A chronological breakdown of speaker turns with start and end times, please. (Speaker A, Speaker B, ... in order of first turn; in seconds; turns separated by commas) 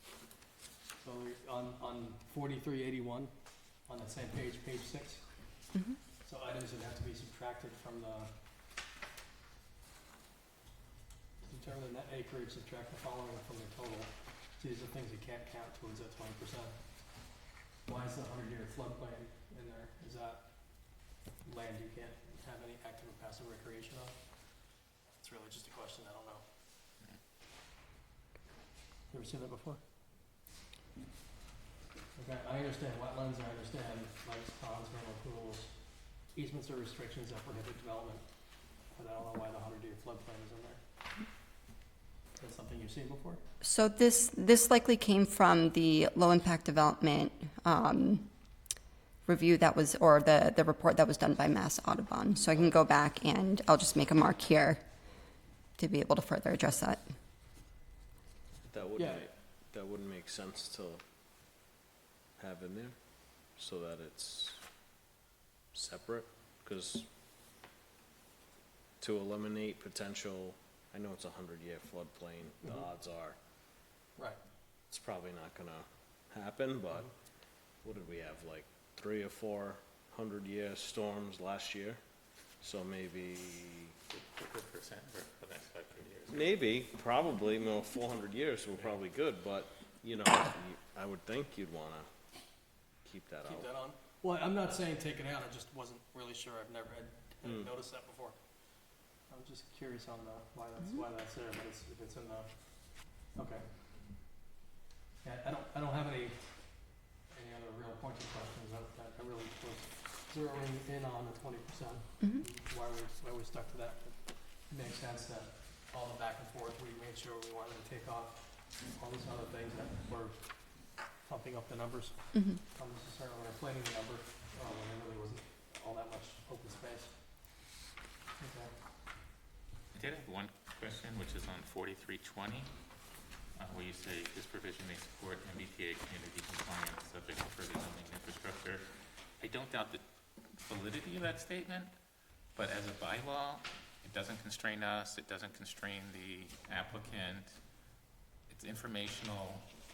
Speaker A: 1.0-5.6, Speaker A: 6.2-8.3, Speaker A: 11.4-17.2, Speaker A: 17.9-26.4, Speaker A: 29.1-29.8, Speaker A: 32.1-40.8, Speaker A: 42.4-43.4, Speaker B: 43.6-48.3, Speaker B: 49.2-54.9, Speaker B: 55.8-57.0, Speaker C: 58.7-61.0, Speaker A: 59.0-59.3, Speaker C: 62.4-64.6, Speaker C: 65.7-67.1, Speaker C: 69.0-73.4, Speaker A: 74.2-74.4, Speaker C: 74.9-77.1, Speaker C: 77.8-82.0, Speaker C: 82.6-84.0, Speaker D: 84.1-86.6, Speaker C: 86.3-92.1, Speaker C: 93.0-93.7, Speaker A: 93.4-104.2, Speaker C: 97.4-97.7, Speaker A: 105.2-127.3, Speaker B: 122.3-122.6, Speaker A: 128.4-128.8, Speaker D: 129.9-132.7, Speaker D: 133.6-140.0, Speaker D: 140.6-141.9, Speaker D: 142.6-147.6, Speaker D: 148.5-149.7